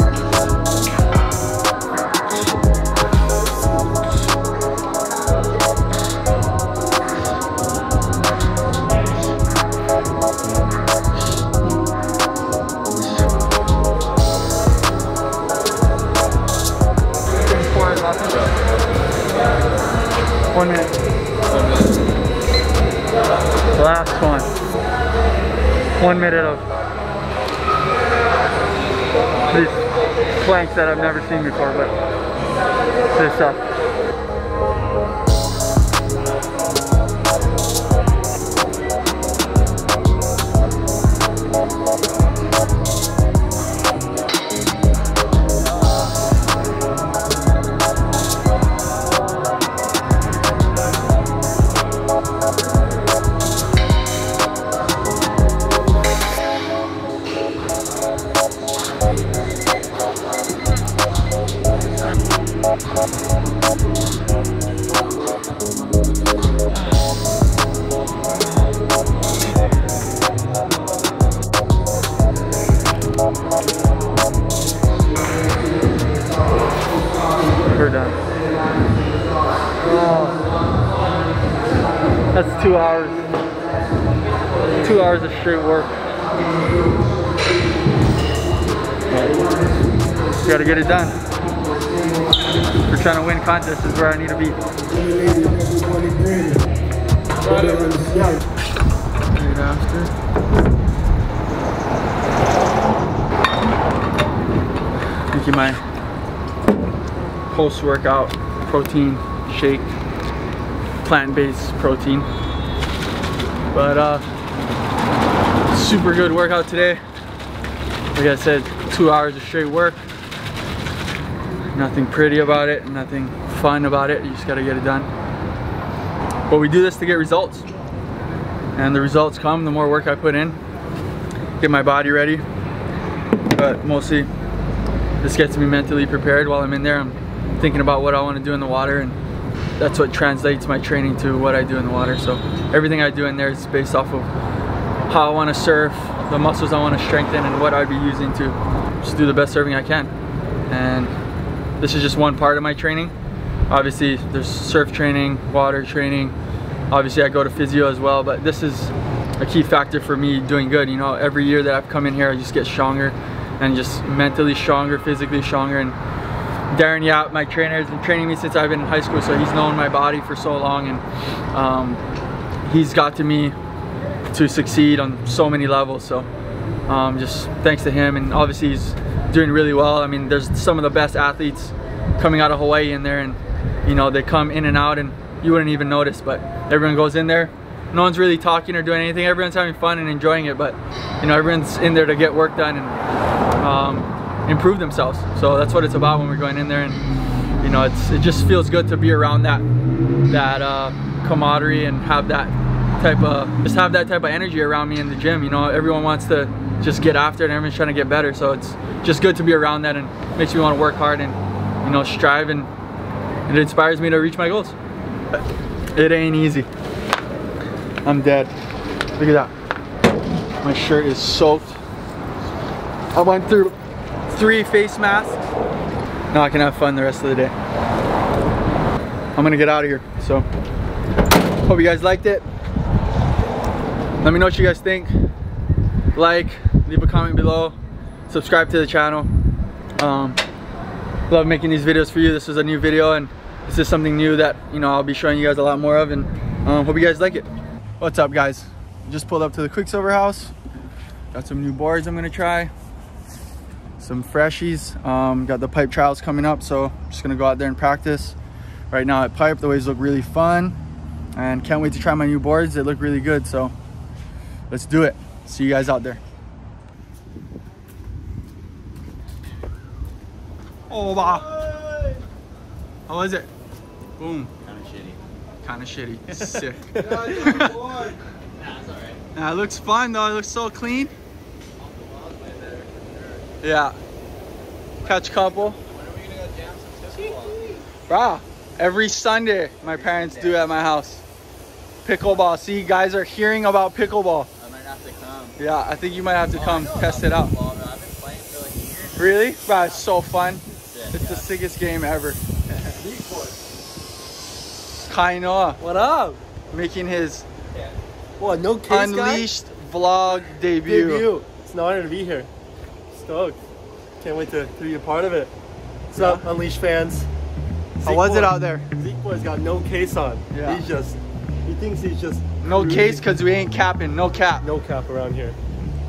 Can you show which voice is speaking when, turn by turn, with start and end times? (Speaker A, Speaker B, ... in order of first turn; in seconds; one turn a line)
Speaker A: 17.4-18.5
Speaker A: 20.5-20.9
Speaker A: 23.7-24.5
Speaker A: 26.0-26.6
Speaker A: 29.5-31.9
Speaker A: 33.1-33.6
Speaker A: 77.7-78.2
Speaker A: 79.8-80.4
Speaker A: 82.3-83.3
Speaker A: 84.8-85.9
Speaker A: 89.1-89.5
Speaker A: 90.4-91.2
Speaker A: 92.8-94.6
Speaker B: 97.6-98.2
Speaker A: 99.3-100.1
Speaker A: 105.3-105.8
Speaker A: 107.5-109.9
Speaker A: 111.0-112.3
Speaker A: 113.7-114.2
Speaker A: 115.7-117.0
Speaker A: 118.1-120.0
Speaker A: 121.7-125.1
Speaker A: 126.5-127.7
Speaker A: 128.7-130.6
Speaker A: 131.6-132.4
Speaker A: 133.5-134.3
Speaker A: 135.2-139.2
Speaker A: 139.8-144.3
Speaker A: 145.1-150.1
Speaker A: 150.7-151.1
Speaker A: 151.8-153.1
Speaker A: 153.7-156.3
Speaker A: 156.9-166.0
Speaker A: 166.7-172.0
Speaker A: 172.6-173.5
Speaker A: 174.3-176.3
Speaker A: 176.9-192.9
Speaker A: 193.6-197.0
Speaker A: 197.6-199.6
Speaker A: 200.3-212.7
Speaker A: 213.5-214.7
Speaker A: 215.9-216.7
Speaker A: 218.0-218.5
Speaker A: 219.2-219.5
Speaker A: 220.6-221.8
Speaker A: 223.1-223.7
Speaker A: 224.3-225.4
Speaker A: 226.3-227.5
Speaker A: 229.3-230.4
Speaker A: 231.7-232.4
Speaker A: 234.2-235.3
Speaker A: 236.1-237.8
Speaker A: 238.3-239.3
Speaker A: 240.0-240.4
Speaker A: 241.3-247.5
Speaker A: 248.0-250.5
Speaker A: 251.3-252.7
Speaker A: 254.0-258.4
Speaker A: 258.9-260.7
Speaker A: 261.4-263.7
Speaker A: 264.7-266.2
Speaker A: 270.9-271.5
Speaker A: 273.1-273.5
Speaker A: 274.2-274.5
Speaker C: 274.6-275.2
Speaker A: 275.6-277.8
Speaker B: 276.9-277.6
Speaker C: 277.5-278.0
Speaker C: 278.5-279.2
Speaker A: 279.3-281.1
Speaker C: 281.8-283.6
Speaker A: 283.6-284.0
Speaker C: 285.0-287.7
Speaker A: 285.0-285.8
Speaker B: 287.1-287.8
Speaker A: 288.1-291.2
Speaker C: 289.8-290.8
Speaker A: 292.0-294.5
Speaker C: 294.6-295.6
Speaker A: 295.6-297.5
Speaker C: 296.5-300.0
Speaker A: 299.2-302.4
Speaker C: 300.9-301.5
Speaker C: 302.7-303.0
Speaker B: 303.0-303.5
Speaker A: 305.1-305.8
Speaker B: 305.8-306.4
Speaker A: 306.7-307.4
Speaker B: 308.4-309.5
Speaker A: 308.9-311.3
Speaker B: 310.8-312.5
Speaker B: 313.1-313.6
Speaker B: 314.2-315.5
Speaker B: 316.1-317.3
Speaker A: 316.1-316.4
Speaker B: 318.0-323.2
Speaker A: 318.0-318.9
Speaker A: 320.5-320.8
Speaker A: 322.6-324.6
Speaker B: 324.6-325.6